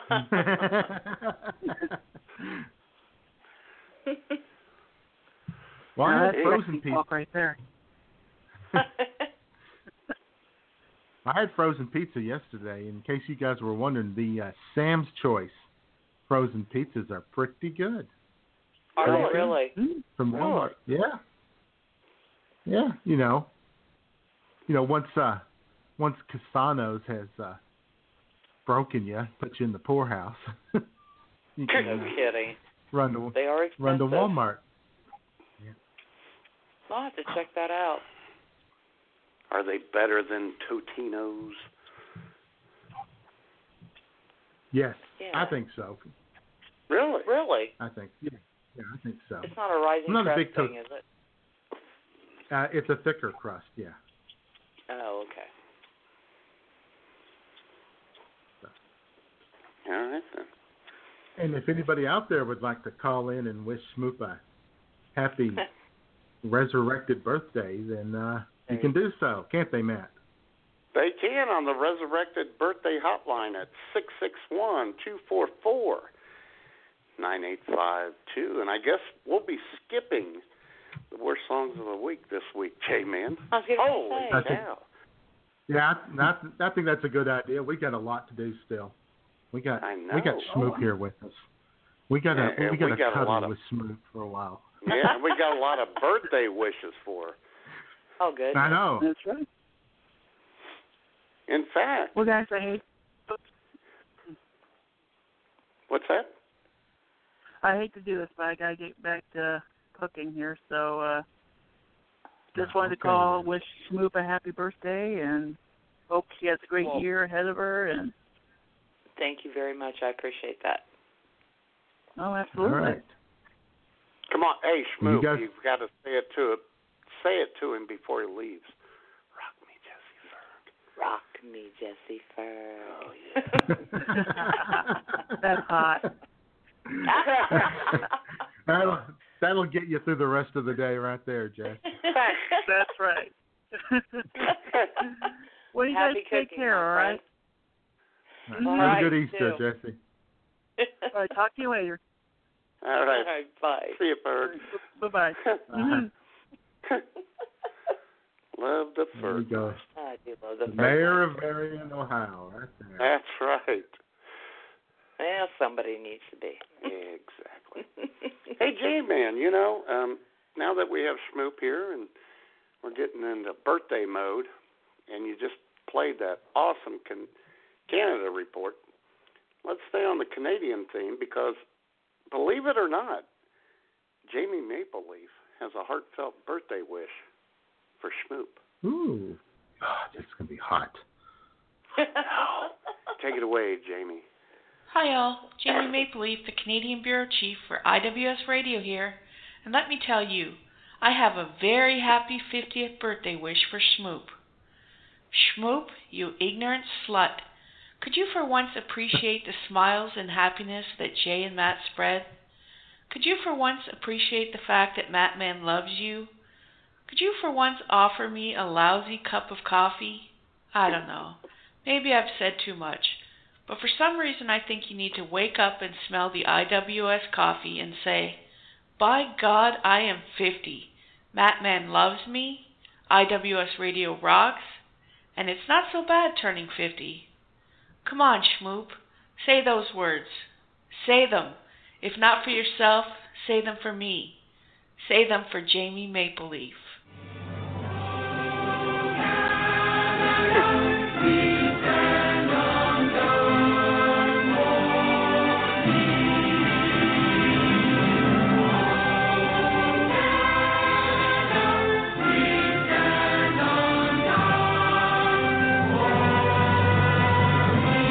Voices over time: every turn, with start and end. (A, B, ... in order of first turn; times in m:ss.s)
0:00.3-0:02.7 A
0:06.0-0:07.0 A
0:06.0-0:07.6 B
0:06.3-0:06.6 C
0:08.8-0:09.1 D
0:11.2-0:15.7 A
0:16.3-0:18.1 A
0:19.0-0:19.5 C
0:19.0-0:19.8 D
0:19.0-0:19.6 A
0:19.8-0:20.0 B
0:20.2-0:21.2 A
0:20.3-0:20.8 C
0:22.7-0:23.5 A
0:24.7-0:25.4 A
0:26.0-0:27.6 A
0:28.7-0:30.8 A
0:31.6-0:32.2 A
0:31.7-0:32.2 C
0:31.8-0:32.6 D
0:32.9-0:34.6 A
0:33.3-0:34.3 D
0:36.9-0:38.0 D
0:39.5-0:41.7 C
0:44.7-0:46.1 A
0:45.2-0:45.6 D
0:46.9-0:47.3 C
0:47.3-0:47.8 D
0:47.8-0:49.5 A
0:49.4-0:51.0 D
0:50.1-0:50.7 A
0:52.5-0:54.0 A
0:54.9-0:55.5 D
0:59.9-1:00.5 C
1:01.4-1:04.4 A
1:05.2-1:05.6 A
1:06.4-1:10.2 A
1:10.9-1:16.1 C
1:17.2-1:20.4 C
1:21.1-1:24.8 C
1:23.5-1:24.6 D
1:24.3-1:24.6 A
1:25.7-1:29.0 A
1:29.5-1:31.5 A
1:29.8-1:30.5 C
1:32.1-1:34.8 A
1:32.3-1:33.5 C
1:34.8-1:37.4 C
1:38.2-1:38.8 D
1:38.5-1:39.1 A
1:39.0-1:39.5 B
1:41.5-1:42.1 C
1:42.2-1:43.4 B
1:45.9-1:46.3 C
1:47.6-1:51.2 B
1:52.6-1:55.6 B
1:52.6-1:53.5 A
1:56.1-1:58.1 B
1:59.2-2:00.8 D
2:02.2-2:03.0 B
2:02.6-2:03.1 A
2:04.3-2:08.8 C
2:05.0-2:05.4 A
2:09.4-2:10.6 C
2:11.0-2:13.7 D
2:12.8-2:13.6 C
2:13.9-2:15.0 A
2:14.2-2:14.8 B
2:15.4-2:16.0 B
2:16.9-2:18.0 A
2:17.2-2:17.5 C
2:17.3-2:18.0 D
2:18.7-2:21.8 A
2:22.0-2:22.6 D
2:22.7-2:24.2 B
2:24.4-2:24.9 C
2:25.7-2:27.2 B
2:25.9-2:27.2 D
2:28.5-2:30.0 A
2:28.6-2:29.1 B
2:28.6-2:29.6 D
2:30.8-2:31.1 D
2:31.1-2:32.0 B
2:32.8-2:33.3 C
2:33.1-2:34.0 D
2:33.9-2:34.6 C
2:34.4-2:36.1 B
2:35.7-2:36.0 A
2:38.6-2:39.8 C
2:39.2-2:39.8 A
2:40.0-2:41.3 D
2:40.7-2:43.1 A
2:43.0-2:44.0 C
2:45.2-2:46.7 D
2:46.8-2:47.8 C
2:48.6-2:52.1 C
2:52.8-2:54.5 C
2:55.1-2:57.3 C
2:57.9-2:58.8 C
2:59.6-3:01.6 C
3:02.3-3:03.3 C
3:04.3-3:07.2 C
3:08.0-3:08.6 C
3:08.8-3:11.0 A
3:12.2-3:14.2 C
3:14.9-3:24.4 E
3:25.3-3:27.5 E
3:28.0-3:32.3 E
3:33.1-3:36.3 E
3:37.1-3:48.4 E
3:49.0-3:54.8 E
3:55.4-3:57.3 E
3:58.0-4:04.4 E
4:05.0-4:07.0 E